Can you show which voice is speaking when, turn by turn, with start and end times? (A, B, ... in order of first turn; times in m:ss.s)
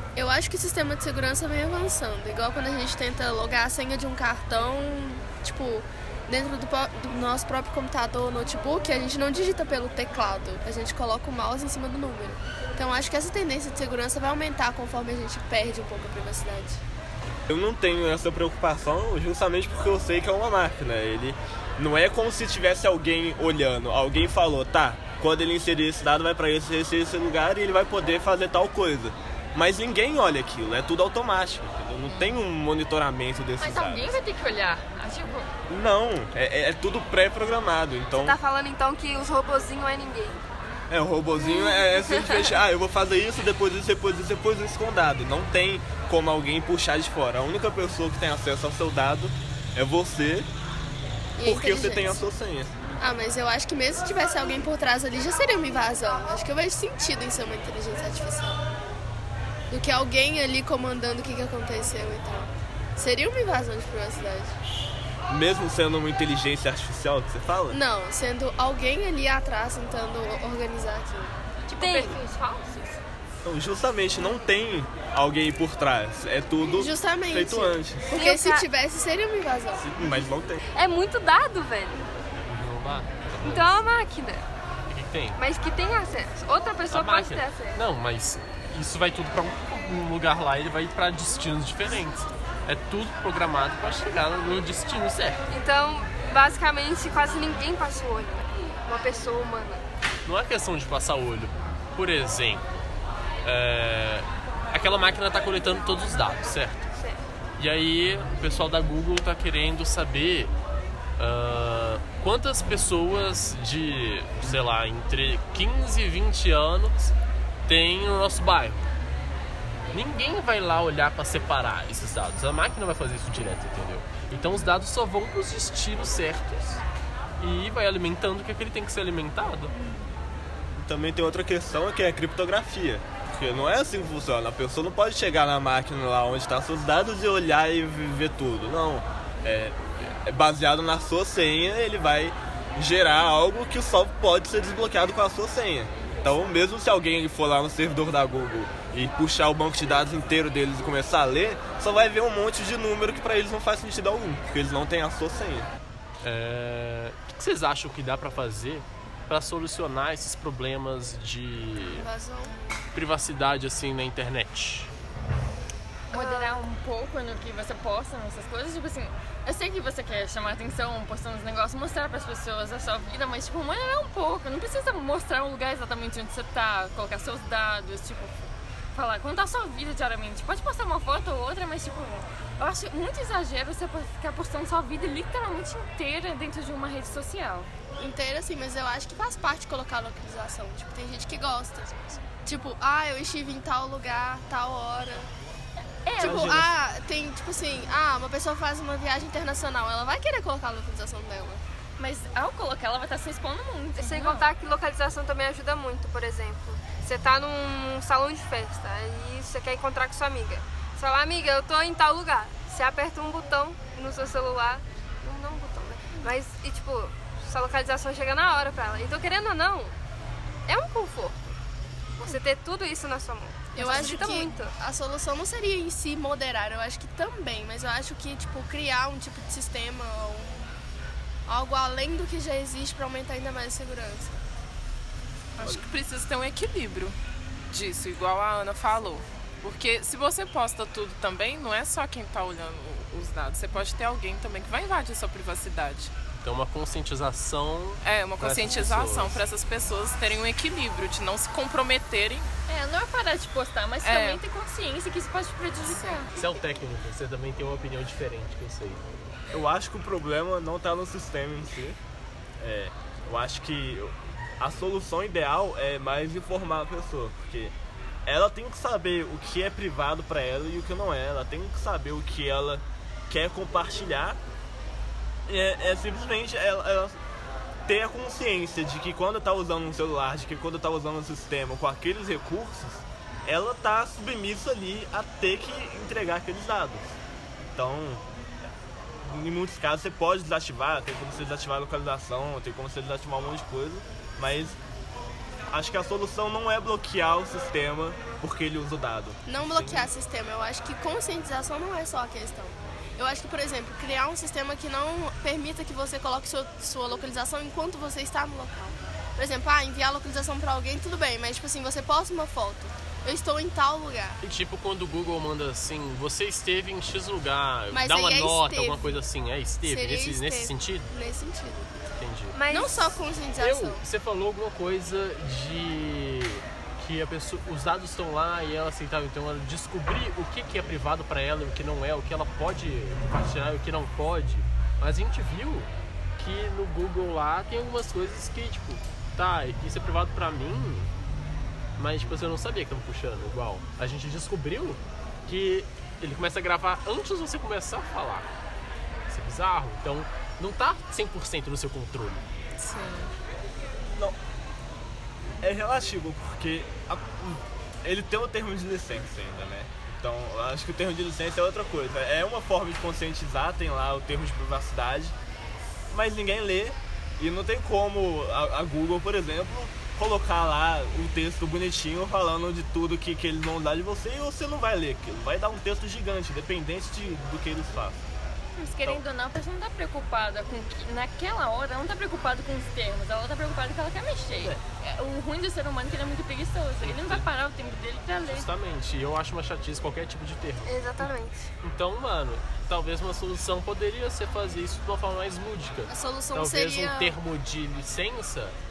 0:00.2-0:16.8 A
0:17.5-0:34.2 B
0:32.1-0:32.3 C
0:33.6-0:35.5 C
0:35.7-0:38.4 B
0:38.2-0:40.4 D
0:40.9-0:50.5 B
0:41.4-0:42.4 D
0:51.4-0:52.2 A
0:51.4-0:52.8 B
0:53.0-0:58.6 A
0:59.7-1:04.6 A
1:05.3-1:07.8 B
1:07.7-1:11.3 A
1:11.6-1:13.0 C
1:11.8-1:12.2 D
1:13.4-1:18.2 B
1:16.7-1:19.9 A
1:18.1-1:18.7 D
1:19.8-1:20.6 B
1:20.8-1:22.1 D
1:22.4-1:23.9 E
1:23.4-1:24.5 D
1:24.9-1:25.4 E
1:25.4-1:27.8 D
1:26.9-1:35.4 E
1:35.5-1:39.8 D
1:40.3-1:42.7 E
1:43.4-1:46.9 E
1:47.0-1:47.2 D
1:47.6-1:50.5 E
1:51.2-1:57.1 E
1:57.7-1:58.9 E
1:59.9-2:06.8 E
2:07.4-2:09.7 E
2:10.8-2:35.7 B
2:36.2-2:42.1 E
2:41.8-2:42.6 A
2:42.9-2:44.9 E
2:46.1-3:07.7 C
2:46.1-2:46.7 D
3:08.0-3:15.3 A
3:16.0-3:16.6 C
3:16.2-3:16.7 B
3:16.2-3:21.6 A
3:22.0-3:24.5 C
3:24.0-3:40.0 D
3:40.7-3:41.6 D
3:42.2-3:44.7 D
3:43.7-3:50.7 A
3:51.5-3:54.4 A
3:55.6-3:57.2 F
3:57.7-4:06.1 F
4:06.4-4:09.4 E
4:08.0-4:12.5 F
4:12.7-4:16.3 C
4:14.0-4:14.4 F
4:15.8-4:16.3 F
4:16.4-4:19.0 E
4:19.5-4:22.0 B
4:22.6-4:27.7 B
4:28.3-4:34.4 B
4:35.5-4:37.2 B
4:37.9-4:47.2 B
4:47.8-4:48.2 B
4:49.2-4:54.8 B
4:55.7-4:59.4 B
4:59.5-5:14.4 A
4:59.6-5:00.1 E
5:14.4-5:21.1 E
5:17.9-5:19.2 A
5:19.8-5:22.1 A
5:22.2-5:22.6 E
5:22.5-5:23.2 D
5:22.7-5:24.0 A
5:23.6-5:41.1 E
5:42.0-5:48.5 E
5:49.3-5:52.4 E
5:52.8-5:53.3 F
5:55.6-6:05.4 B
6:06.1-6:18.3 B
6:18.8-6:28.7 C
6:24.6-6:24.8 B
6:27.0-6:27.5 E
6:28.5-6:31.3 E
6:30.9-6:31.7 D
6:31.8-6:38.8 E
6:36.1-6:37.4 A